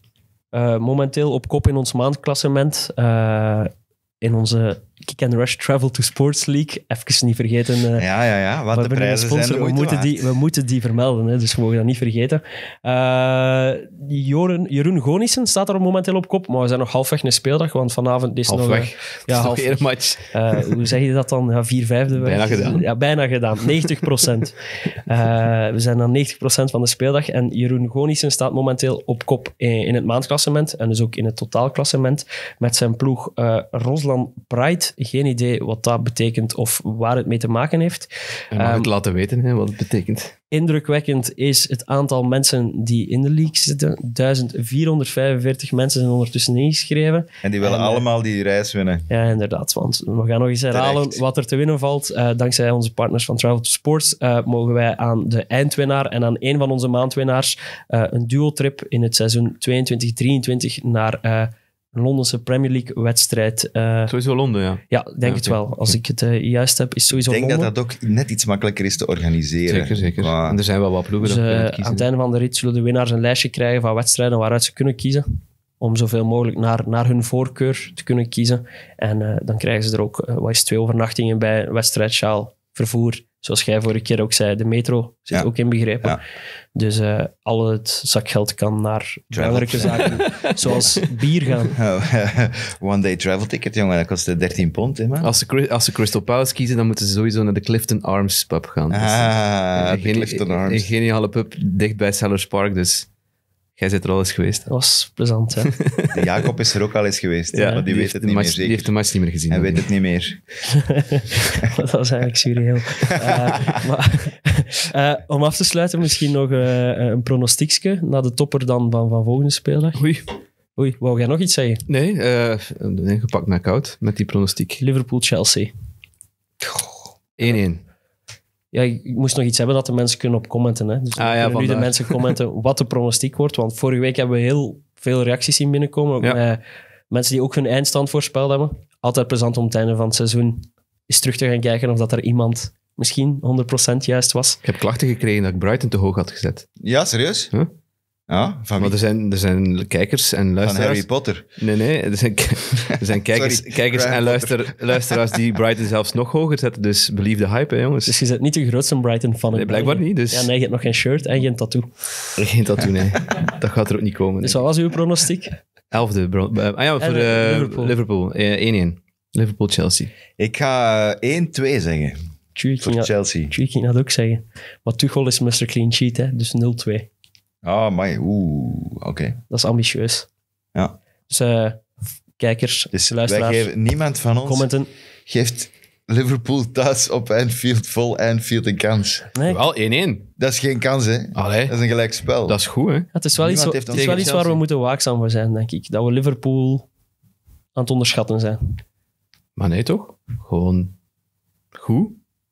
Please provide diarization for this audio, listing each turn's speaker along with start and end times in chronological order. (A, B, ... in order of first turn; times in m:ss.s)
0:00.5-0:08.0 A
0:08.0-0:10.2 B
0:08.7-0:38.9 A
0:18.5-0:20.8 C
0:22.2-0:22.8 C
0:38.5-0:40.4 C
0:40.5-0:48.0 A
0:47.4-0:49.1 B
0:49.1-1:04.1 A
0:50.7-0:51.2 B
1:04.1-1:05.6 C
1:04.9-1:07.7 A
1:07.2-1:10.6 B
1:09.7-1:12.0 C
1:11.2-1:15.2 A
1:15.8-1:26.2 A
1:26.7-1:31.8 A
1:29.3-1:30.3 B
1:30.2-1:31.0 C
1:31.7-1:35.3 B
1:35.2-1:43.1 C
1:38.9-1:40.9 B
1:43.8-1:44.7 C
1:44.7-1:45.7 A
1:45.7-1:46.4 C
1:46.1-1:48.9 B
1:47.5-1:49.9 C
1:49.5-1:50.4 B
1:50.7-2:00.0 A
2:00.0-2:00.2 C
2:00.8-2:01.8 A
2:01.9-2:04.8 C
2:04.8-2:05.7 A
2:06.6-2:06.9 B
2:07.4-2:07.8 C
2:08.7-2:24.6 A
2:11.2-2:12.3 C
2:24.6-2:26.7 C
2:26.8-2:27.5 B
2:28.3-2:29.0 B
2:28.8-2:38.2 C
2:30.6-2:31.4 B
2:32.9-2:35.2 B
2:38.0-2:41.9 A
2:39.5-2:40.5 C
2:42.4-2:44.6 C
2:44.4-2:45.6 A
2:45.9-2:50.1 C
2:47.0-2:48.0 A
2:50.4-2:52.2 B
2:52.5-2:57.1 A
2:52.8-2:53.5 B
2:57.6-2:59.4 B
2:59.5-3:00.3 A
3:01.3-3:01.8 A
3:02.4-3:03.7 A
3:02.9-3:04.7 B
3:04.4-3:04.9 A
3:05.3-3:09.3 B
3:09.3-3:09.6 A
3:09.4-3:10.3 C
3:10.4-3:12.6 B
3:11.3-3:11.8 C
3:12.4-3:13.1 C
3:13.1-3:16.9 A
3:13.4-3:14.3 B
3:13.9-3:14.6 C
3:17.8-3:18.8 A
3:19.6-3:20.9 C
3:21.7-3:22.2 C